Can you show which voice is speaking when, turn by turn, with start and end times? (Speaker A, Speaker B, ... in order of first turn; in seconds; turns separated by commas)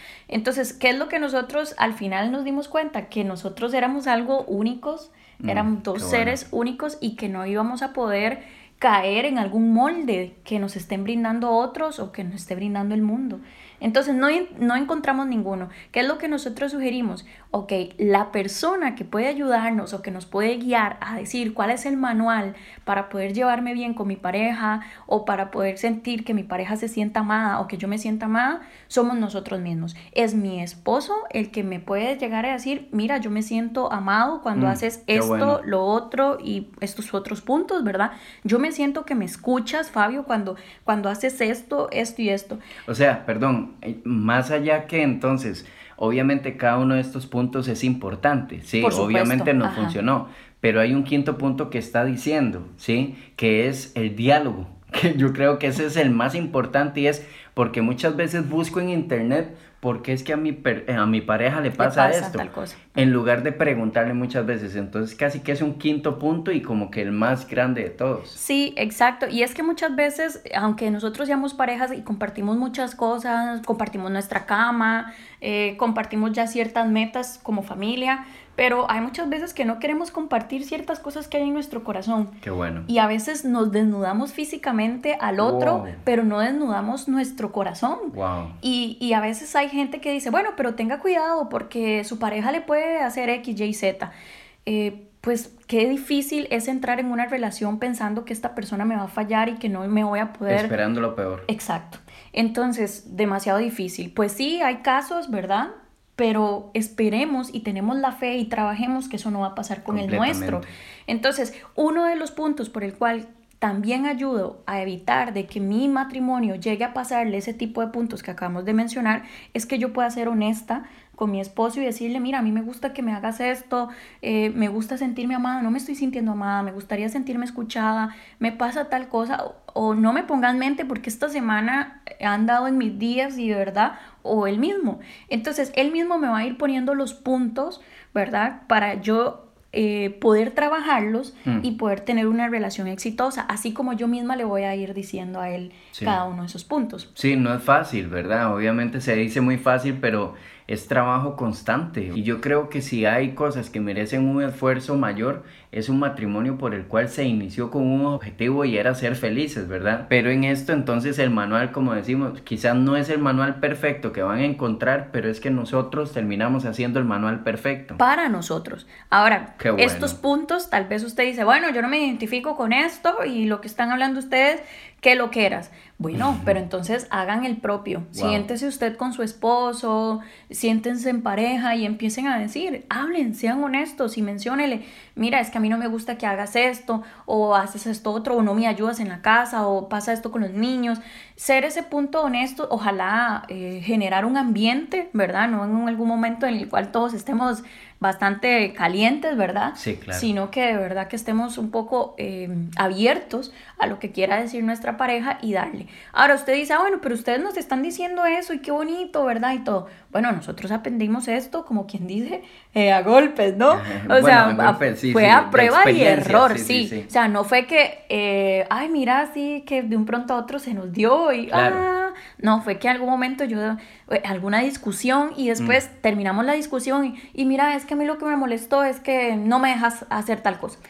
Speaker A: 0.3-42.6, Speaker B: 5.4-6.4, Speaker B: 34.5-35.6, Speaker B: 42.9-68.4, Speaker A: 48.8-50.0, Speaker A: 61.8-62.9, Speaker A: 68.3-82.3, Speaker B: 82.4-82.9, Speaker A: 82.9-94.1, Speaker B: 85.4-86.0, Speaker B: 88.1-88.6, Speaker A: 94.6-100.7, Speaker B: 100.5-101.5, Speaker A: 101.5-147.1, Speaker B: 109.9-110.7, Speaker B: 145.9-146.2, Speaker B: 147.2-168.0, Speaker A: 168.0-230.8, Speaker B: 169.6-170.2, Speaker B: 176.1-176.5, Speaker B: 178.1-178.4, Speaker B: 199.8-200.3, Speaker B: 213.7-217.1, Speaker B: 221.5-221.8